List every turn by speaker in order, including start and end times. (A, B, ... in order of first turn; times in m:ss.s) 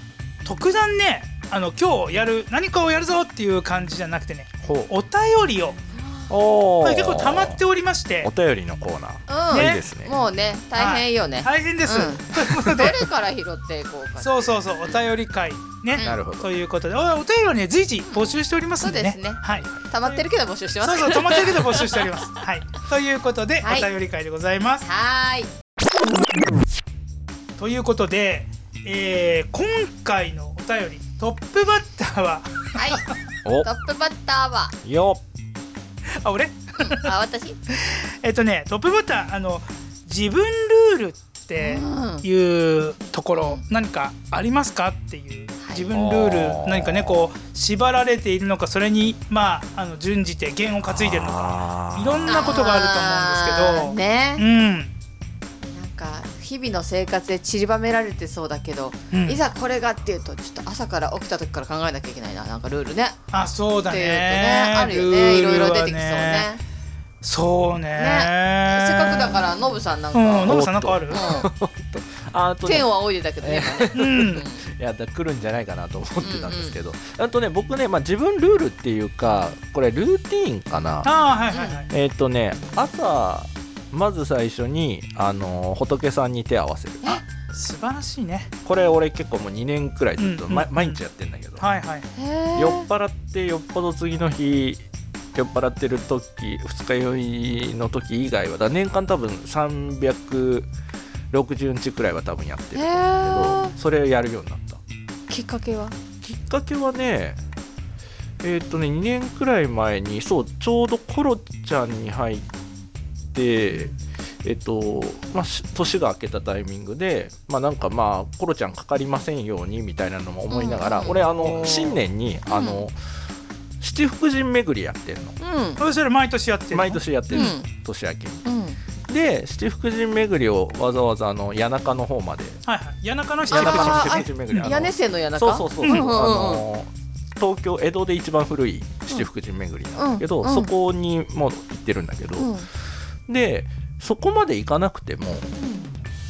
0:00.4-0:05.8 A
0:04.6-0:04.9 B
0:06.0-0:06.2 C
0:06.3-0:07.6 B
0:06.8-0:08.3 A
0:08.2-0:10.1 B
0:09.3-0:14.5 C
0:09.5-0:09.8 A
0:10.8-0:13.0 A
0:14.2-0:20.2 A
0:15.9-0:16.2 C
0:16.0-0:16.5 B
0:18.8-0:22.2 C
0:20.8-0:24.8 A
0:23.6-0:23.9 C
0:24.8-0:25.5 C
0:27.6-0:33.0 A
0:32.7-0:33.0 C
0:33.4-0:33.7 B
0:33.6-0:34.8 C
0:34.8-0:35.2 B
0:36.2-0:37.1 A
0:36.8-0:37.6 C
0:37.7-0:54.9 A
0:41.6-0:42.2 C
0:43.3-0:43.6 C
0:45.6-0:45.9 C
0:45.9-0:47.3 B
0:50.9-0:52.5 B
0:52.3-0:54.4 C
0:55.7-1:03.2 C
0:59.1-0:59.4 A
1:03.3-1:06.5 A
1:03.9-1:06.6 C
1:07.2-1:09.5 A
1:08.0-1:11.5 C
1:10.1-1:11.2 A
1:10.5-1:21.1 B
1:12.6-1:14.6 C
1:13.9-1:14.5 A
1:16.2-1:16.8 C
1:21.0-1:21.9 A
1:21.5-1:21.8 C
1:21.9-1:27.2 B
1:27.5-1:28.5 A
1:28.6-1:31.6 B
1:30.2-1:31.0 A
1:31.6-1:32.1 A
1:32.1-1:32.9 C
1:32.6-1:34.8 B
1:35.3-1:40.7 B
1:41.3-1:44.8 B
1:42.7-1:43.7 C
1:45.3-1:46.0 C
1:46.2-1:47.4 B
1:48.4-1:52.5 B
1:53.3-2:03.0 B
2:00.5-2:01.3 C
2:01.4-2:02.0 A
2:02.5-2:02.9 C
2:03.8-2:05.4 B
2:05.4-2:05.8 C
2:05.8-2:07.5 A
2:06.7-2:08.4 B
2:07.3-2:07.7 C
2:08.4-2:08.8 C
2:09.1-2:12.6 B
2:12.6-2:14.7 A
2:13.5-2:22.5 B
2:13.5-2:16.6 C
2:15.8-2:16.1 A
2:20.0-2:20.7 C
2:22.4-2:22.7 C
2:23.3-2:25.5 B
2:25.6-2:25.9 C